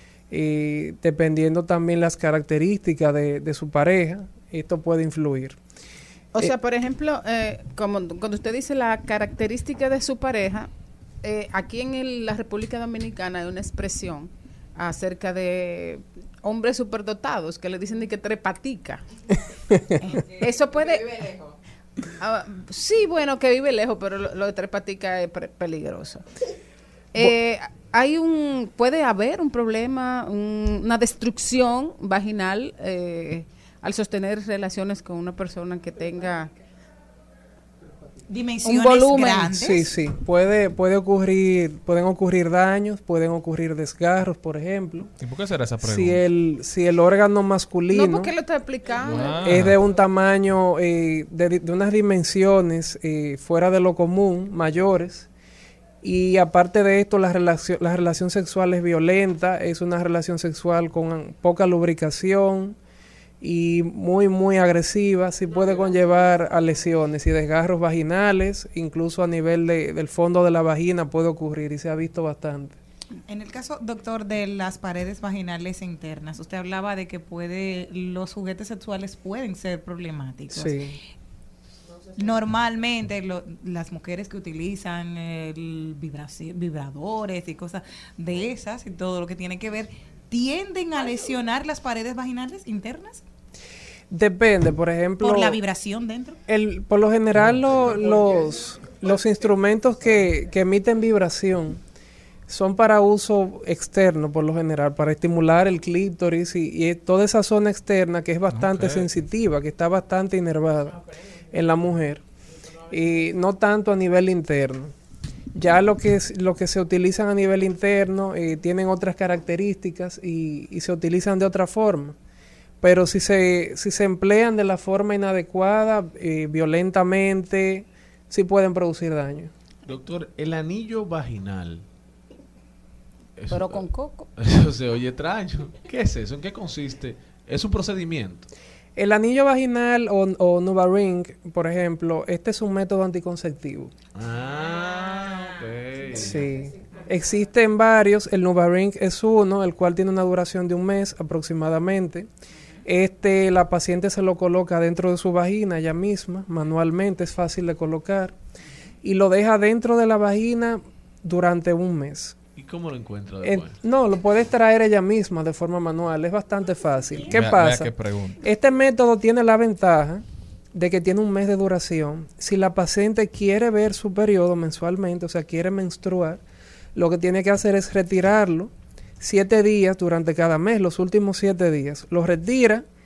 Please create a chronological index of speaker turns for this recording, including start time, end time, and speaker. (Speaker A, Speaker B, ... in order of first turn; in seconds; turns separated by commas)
Speaker A: 0.3-5.6, Speaker B: 6.3-10.7, Speaker B: 11.2-19.0, Speaker B: 20.0-21.4, Speaker B: 22.2-26.2, Speaker B: 27.1-36.5, Speaker C: 38.3-39.8, Speaker B: 38.6-39.8, Speaker A: 39.5-45.1, Speaker D: 45.2-46.2, Speaker A: 45.8-48.3, Speaker B: 47.9-49.5, Speaker D: 49.1-49.8, Speaker A: 49.4-55.3, Speaker A: 56.0-62.8, Speaker A: 63.4-72.8, Speaker C: 73.3-80.9, Speaker A: 80.5-81.0, Speaker C: 82.2-93.2, Speaker A: 94.1-95.6, Speaker C: 95.2-96.4, Speaker A: 96.5-101.8, Speaker A: 102.5-111.0, Speaker D: 108.5-109.1, Speaker A: 111.5-112.2, Speaker A: 112.9-114.9, Speaker A: 115.5-122.2, Speaker A: 122.8-129.5, Speaker E: 129.9-131.8, Speaker E: 133.4-133.9, Speaker B: 133.5-134.3, Speaker E: 134.4-138.5, Speaker A: 139.0-143.9, Speaker E: 144.2-146.4, Speaker A: 146.2-152.3, Speaker A: 152.9-158.3, Speaker A: 159.0-162.4, Speaker E: 162.6-163.8, Speaker A: 163.4-170.2, Speaker D: 167.3-168.4, Speaker A: 170.7-176.4, Speaker A: 176.9-182.8